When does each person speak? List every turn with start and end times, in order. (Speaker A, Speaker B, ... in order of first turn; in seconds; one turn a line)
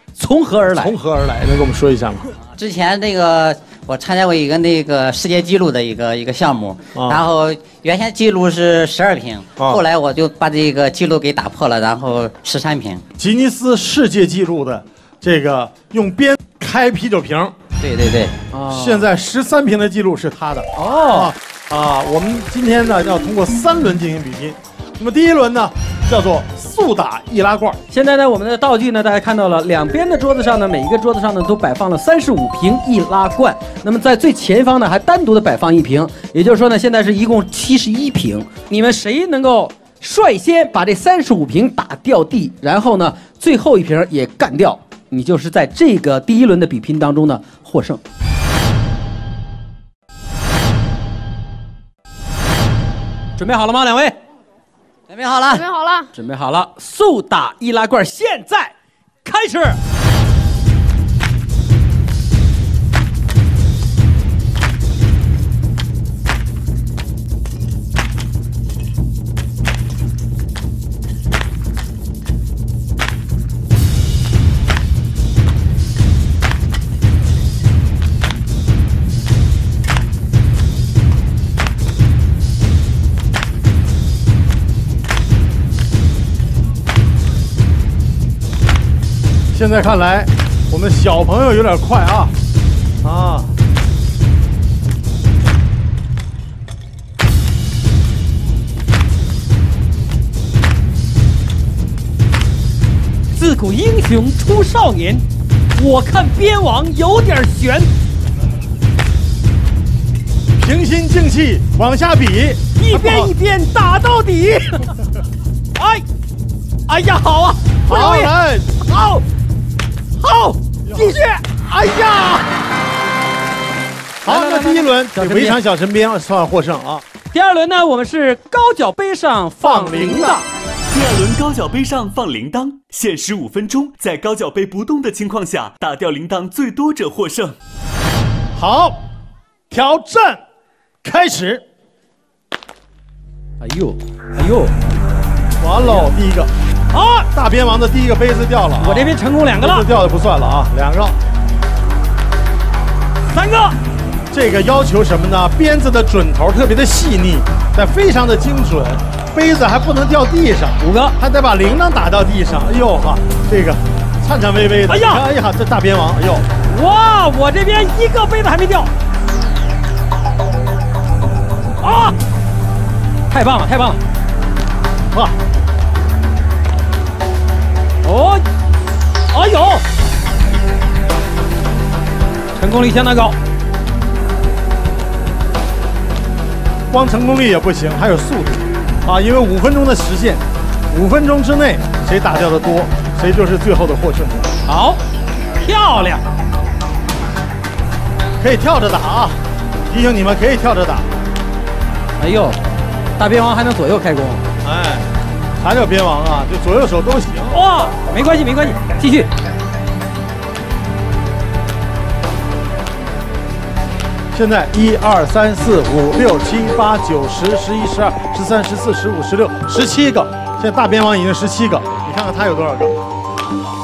Speaker A: 0.1-0.9
Speaker B: 0.7-2.2
Speaker C: 2.5-13.0
Speaker B: 6.9-7.2
Speaker B: 9.6-9.8
Speaker B: 13.2-17.5
Speaker C: 17.8-18.4
Speaker A: 18.5-19.1
Speaker B: 18.7-27.8
Speaker A: 20.8-21.3
Speaker A: 27.9-48.0
Speaker A: 53.4-54.1
Speaker C: 55.1-56.1
Speaker A: 56.1-58.7
Speaker A: 59.2-59.8
Speaker B: 89.5-92.3
Speaker B: 93.0-93.5
Speaker A: 103.3-105.2
Speaker A: 105.7-107.9
Speaker B: 110.6-113.3
Speaker A: 112.8-114.9
Speaker A: 115.8-116.0
Speaker A: 116.9-119.2
Speaker B: 117.8-118.8
Speaker A: 120.2-122.5
Speaker B: 120.8-121.2
Speaker B: 124.2-127.0
Speaker A: 124.2-125.6
Speaker A: 127.3-130.5
Speaker B: 129.6-130.4
Speaker D: 130.9-137.6
Speaker B: 138.5-139.0
Speaker B: 139.7-140.4
Speaker B: 141.0-141.6
Speaker A: 143.6-144.7
Speaker B: 145.6-146.5
Speaker A: 146.9-147.3
Speaker B: 147.3-151.2
Speaker A: 148.8-149.9
Speaker A: 153.3-153.8
Speaker B: 154.3-166.5
Speaker A: 160.8-161.2
Speaker A: 164.9-165.2
Speaker A: 166.6-168.9
Speaker A: 171.8-172.1
Speaker A: 173.3-174.0
Speaker A: 178.0-178.4
Speaker A: 179.3-179.8
Speaker A: 182.5-183.4
Speaker B: 186.9-194.5
Speaker A: 194.7-195.0
Speaker A: 195.6-196.2
Speaker B: 198.4-201.1
Speaker A: 202.2-202.6
Speaker A: 203.2-204.4
Speaker B: 204.6-205.1
Speaker B: 205.6-207.6
Speaker A: 207.5-209.3
Speaker B: 214.3-223.0